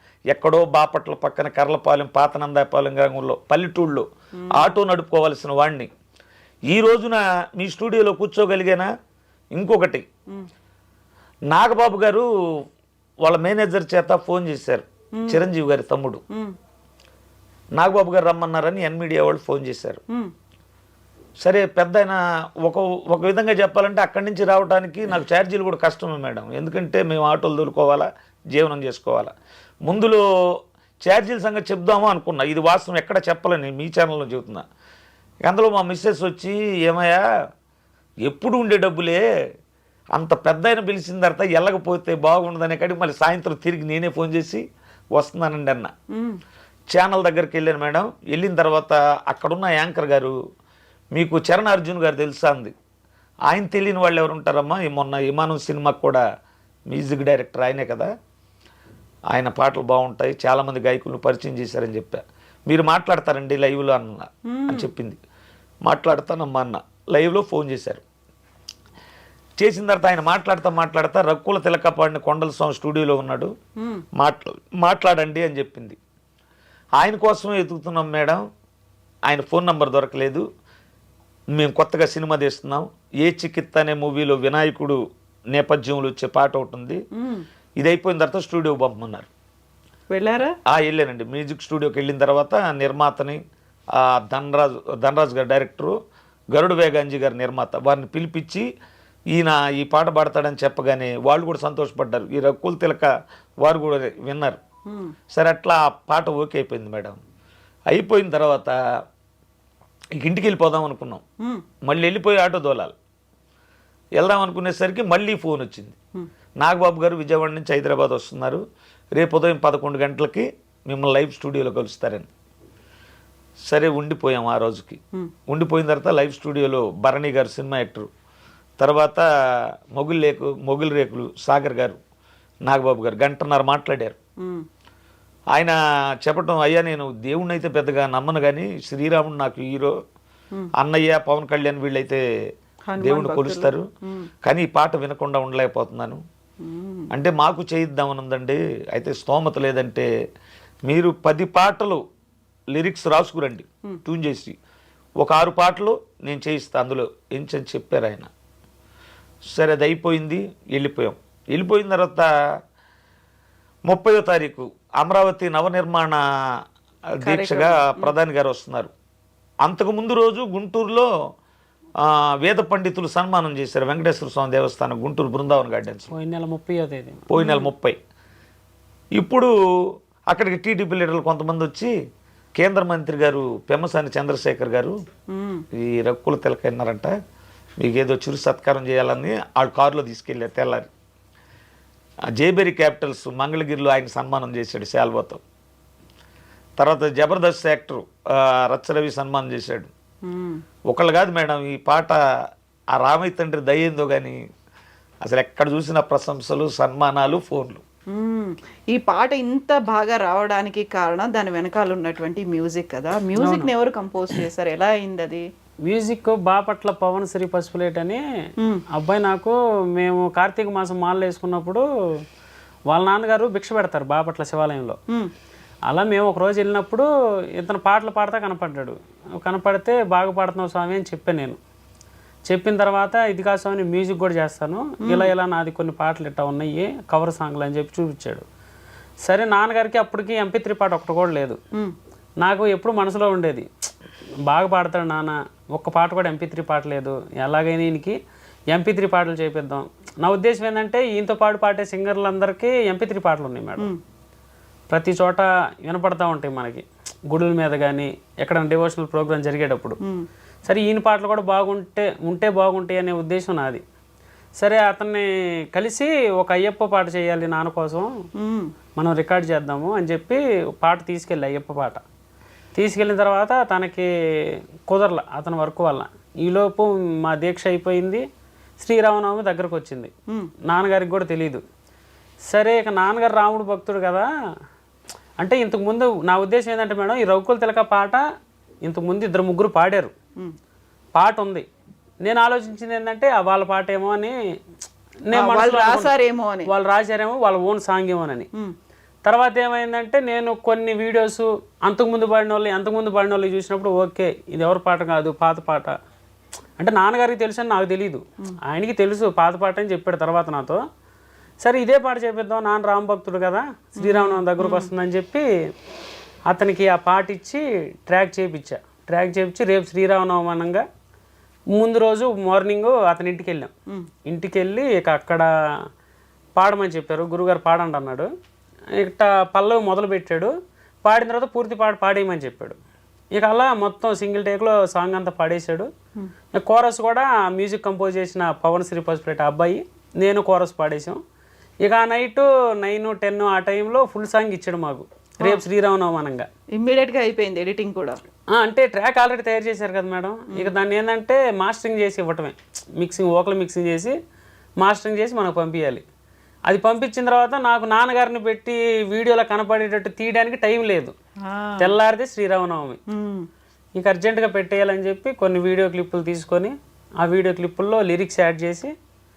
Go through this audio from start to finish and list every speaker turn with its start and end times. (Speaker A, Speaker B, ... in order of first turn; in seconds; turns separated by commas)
Speaker A: 0.3-5.9, Speaker B: 4.4-4.7, Speaker A: 6.7-8.9, Speaker A: 9.5-10.1, Speaker A: 11.5-12.3, Speaker A: 13.2-16.2, Speaker A: 17.8-20.0, Speaker A: 21.4-29.3, Speaker A: 29.8-30.2, Speaker A: 31.0-34.6, Speaker A: 35.4-37.2, Speaker A: 38.2-39.2, Speaker A: 40.1-44.6, Speaker A: 45.1-45.9, Speaker B: 46.1-46.4, Speaker A: 46.9-50.4, Speaker A: 51.1-52.7, Speaker A: 53.5-56.2, Speaker A: 56.9-58.1, Speaker A: 59.3-65.2, Speaker B: 64.5-64.9, Speaker A: 65.8-68.0, Speaker A: 69.6-73.5, Speaker A: 74.2-76.0, Speaker A: 77.0-78.4, Speaker A: 79.2-80.4, Speaker A: 81.5-85.0, Speaker A: 85.5-87.0, Speaker B: 87.2-87.4, Speaker A: 87.8-89.3, Speaker B: 90.1-90.5, Speaker A: 90.7-93.4, Speaker A: 94.0-96.0, Speaker A: 96.5-98.7, Speaker A: 99.3-103.1, Speaker A: 103.6-104.6, Speaker B: 104.9-105.1, Speaker A: 105.3-107.2, Speaker A: 107.9-108.8, Speaker A: 110.2-111.2, Speaker A: 111.8-112.9, Speaker A: 114.2-116.0, Speaker A: 116.6-118.6, Speaker A: 119.2-122.3, Speaker A: 123.7-128.1, Speaker A: 128.8-129.2, Speaker A: 129.9-132.0, Speaker A: 132.7-134.2, Speaker A: 135.5-139.9, Speaker A: 140.8-142.2, Speaker B: 142.9-144.3, Speaker A: 143.0-143.8, Speaker A: 144.4-146.2, Speaker B: 146.6-147.1, Speaker A: 147.1-150.1, Speaker A: 150.8-152.0, Speaker A: 152.7-154.6, Speaker A: 155.2-158.3, Speaker A: 159.5-162.3, Speaker A: 163.9-166.2, Speaker A: 167.1-168.9, Speaker B: 167.2-168.1, Speaker A: 169.6-171.1, Speaker A: 172.0-176.1, Speaker C: 176.1-177.3, Speaker A: 177.3-178.0, Speaker B: 177.4-177.7, Speaker A: 179.1-179.5, Speaker A: 180.3-181.9, Speaker A: 182.6-185.0, Speaker B: 185.3-185.6, Speaker A: 185.7-187.1, Speaker A: 187.8-190.9, Speaker A: 192.3-195.4, Speaker A: 196.8-199.9, Speaker B: 200.3-200.6, Speaker A: 200.9-202.2, Speaker A: 202.9-204.4, Speaker A: 205.2-207.8, Speaker B: 208.1-215.4, Speaker C: 213.3-213.7, Speaker C: 215.8-218.2, Speaker C: 218.9-221.8, Speaker C: 222.9-225.0, Speaker C: 225.9-231.6, Speaker C: 232.4-238.4, Speaker B: 235.0-235.3, Speaker C: 239.2-241.6, Speaker C: 242.4-243.7, Speaker C: 244.4-248.2, Speaker C: 248.7-253.9, Speaker C: 254.9-260.0, Speaker C: 260.6-263.8, Speaker C: 264.6-268.1, Speaker B: 268.4-268.7, Speaker C: 268.9-272.0, Speaker C: 272.7-274.1, Speaker C: 274.9-278.2, Speaker C: 278.8-280.1, Speaker C: 280.7-281.6, Speaker C: 282.5-284.3, Speaker C: 285.4-288.2, Speaker C: 288.8-290.1, Speaker C: 291.1-291.6, Speaker C: 292.2-294.3, Speaker C: 295.2-296.1, Speaker B: 295.3-296.7, Speaker C: 296.7-298.5, Speaker C: 299.2-305.9, Speaker C: 306.8-310.8, Speaker C: 311.6-315.4, Speaker B: 314.0-314.9, Speaker C: 316.5-320.8, Speaker C: 321.7-323.7, Speaker C: 324.2-325.5, Speaker C: 326.6-328.3, Speaker C: 328.9-330.5, Speaker C: 331.0-332.8, Speaker C: 333.3-335.9, Speaker C: 336.5-341.2, Speaker C: 341.8-346.5, Speaker B: 346.8-348.2, Speaker C: 348.5-354.1, Speaker C: 354.8-356.0, Speaker C: 356.7-361.1, Speaker B: 361.4-361.9, Speaker C: 361.8-363.0, Speaker B: 363.1-363.5, Speaker C: 363.9-368.9